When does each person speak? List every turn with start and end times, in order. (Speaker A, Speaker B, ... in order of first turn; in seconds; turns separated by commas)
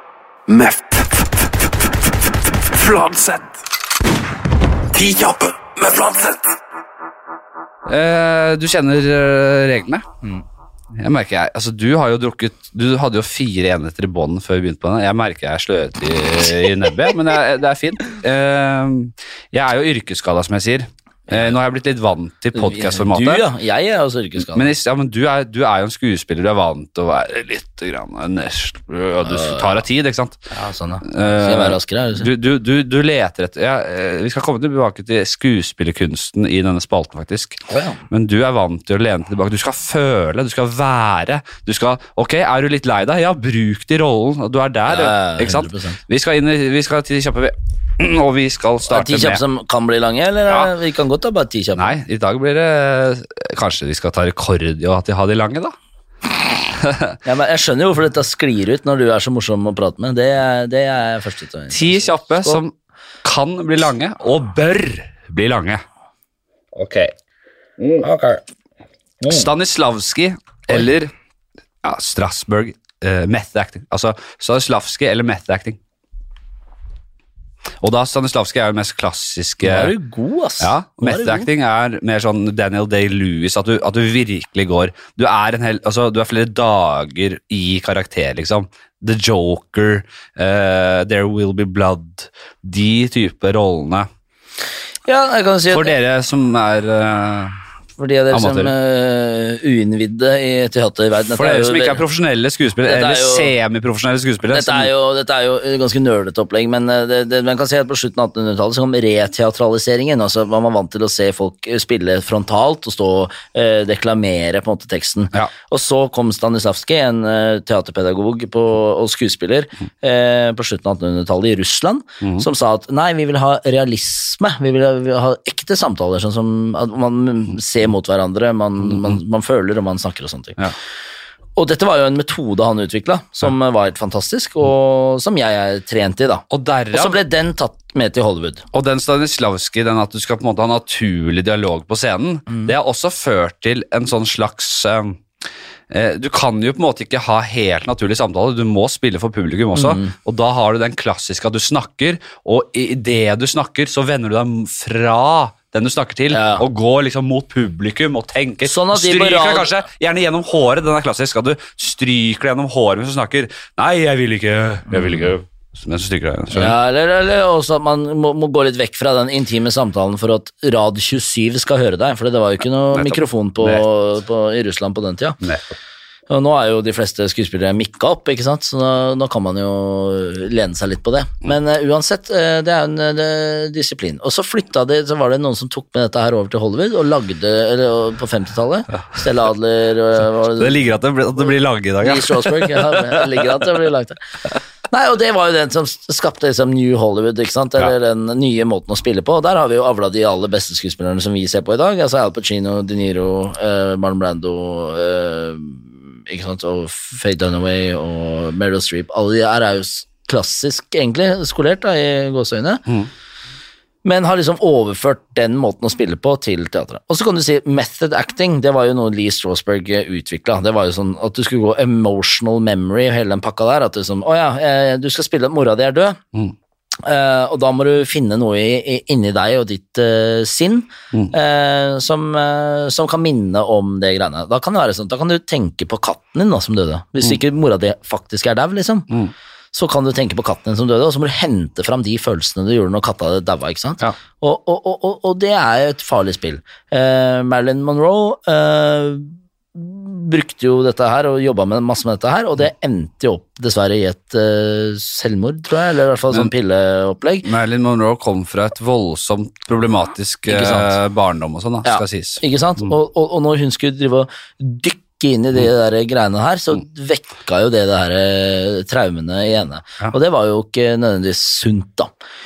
Speaker A: 0.5-1.5, Speaker A: 2.7-3.6, Speaker A: 4.9-6.5, Speaker B: 7.9-10.1, Speaker B: 10.9-23.4, Speaker C: 21.3-21.6, Speaker C: 22.5-24.7, Speaker B: 24.5-30.4, Speaker C: 29.2-29.8, Speaker C: 30.5-32.3, Speaker B: 31.0-49.4, Speaker C: 37.7-38.0, Speaker C: 44.9-46.0, Speaker C: 48.9-51.9, Speaker B: 51.8-55.8, Speaker B: 56.8-57.2, Speaker C: 57.2-62.6, Speaker B: 61.7-65.8, Speaker B: 66.7-67.1, Speaker B: 67.8-68.4, Speaker C: 69.2-69.5, Speaker B: 69.3-71.1, Speaker B: 71.8-75.8, Speaker B: 77.8-79.9, Speaker C: 79.6-81.5, Speaker B: 80.6-94.1, Speaker C: 95.1-95.9, Speaker B: 95.7-97.6, Speaker C: 98.0-102.0, Speaker B: 98.3-98.7, Speaker B: 101.3-104.9, Speaker C: 102.8-103.5, Speaker C: 104.5-130.6, Speaker C: 131.6-138.7, Speaker B: 136.5-137.2, Speaker B: 138.7-145.2, Speaker B: 145.9-166.8, Speaker C: 149.7-150.1, Speaker C: 156.3-156.7, Speaker C: 158.7-159.8, Speaker C: 164.9-165.3, Speaker C: 166.5-175.4, Speaker B: 172.9-173.8, Speaker B: 175.4-175.8, Speaker C: 176.3-190.8, Speaker B: 190.4-193.4, Speaker C: 192.0-194.2, Speaker C: 194.9-212.8, Speaker C: 214.0-226.2, Speaker C: 227.0-239.1, Speaker C: 239.7-257.5, Speaker B: 257.4-262.4, Speaker C: 260.5-261.0, Speaker C: 261.9-272.1